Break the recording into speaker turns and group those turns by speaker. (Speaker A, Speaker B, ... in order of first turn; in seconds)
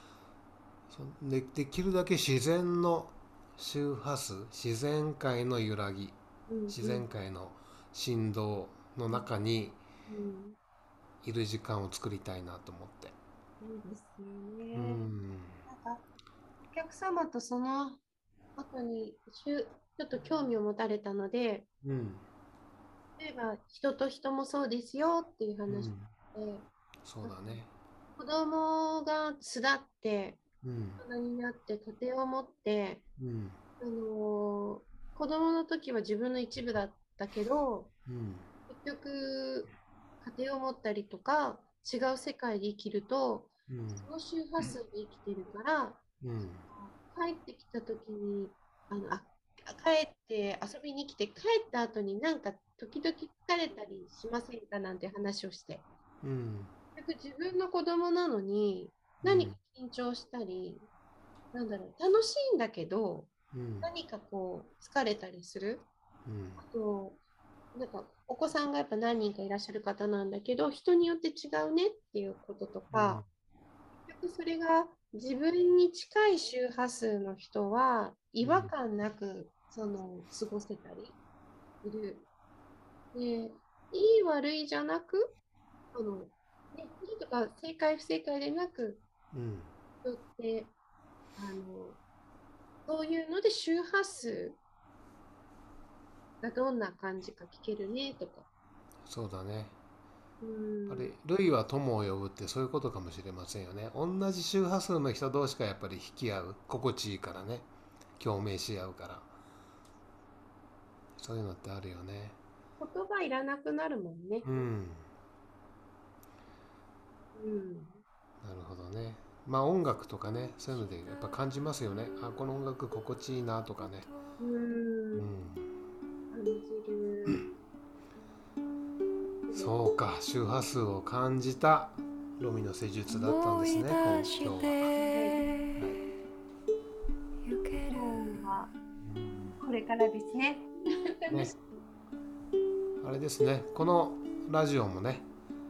Speaker A: 0.9-6.2, 6.7-9.8, 11.2-13.2, 14.7-15.6, 21.8-22.3, 25.7-26.1, 27.0-27.7, 30.6-31.0, 33.2-33.6, 38.1-38.5, 43.7-44.1, 46.2-46.7, 56.2-56.7, 59.2-59.6, 63.5-63.9, 66.3-66.6, 72.9-73.3, 78.4-78.8, 89.3-89.7, 99.1-99.8, 100.9-109.3, 111.2-112.4, 114.4-115.1, 118.4-124.1, 125.2-125.7, 129.5-134.9, 135.8-136.0, 139.0-139.6, 141.3-141.5, 143.0-145.3
Speaker B: 6.5-7.1, 10.1-10.6, 13.6-15.1, 15.7-16.0, 16.6-18.0, 18.6-21.7, 23.2-26.7, 27.2-27.6, 28.2-30.4, 31.0-33.0, 33.8-37.9, 38.7-39.7, 40.2-46.0, 46.7-55.9, 57.0-60.9, 61.5-63.3, 63.8-65.9, 66.6-67.2, 67.7-73.2, 74.0-81.2, 81.8-82.3, 83.1-85.4, 85.9-89.0, 90.0-90.7, 91.4-92.0, 92.9-94.6, 96.4-98.5, 100.4-101.1, 112.8-114.5, 117.3-118.0, 124.4-125.3, 126.3-127.5, 129.5-129.9, 135.1-135.4, 137.9-138.7, 139.6-141.6
Speaker C: 133.1-135.8, 137.4-138.3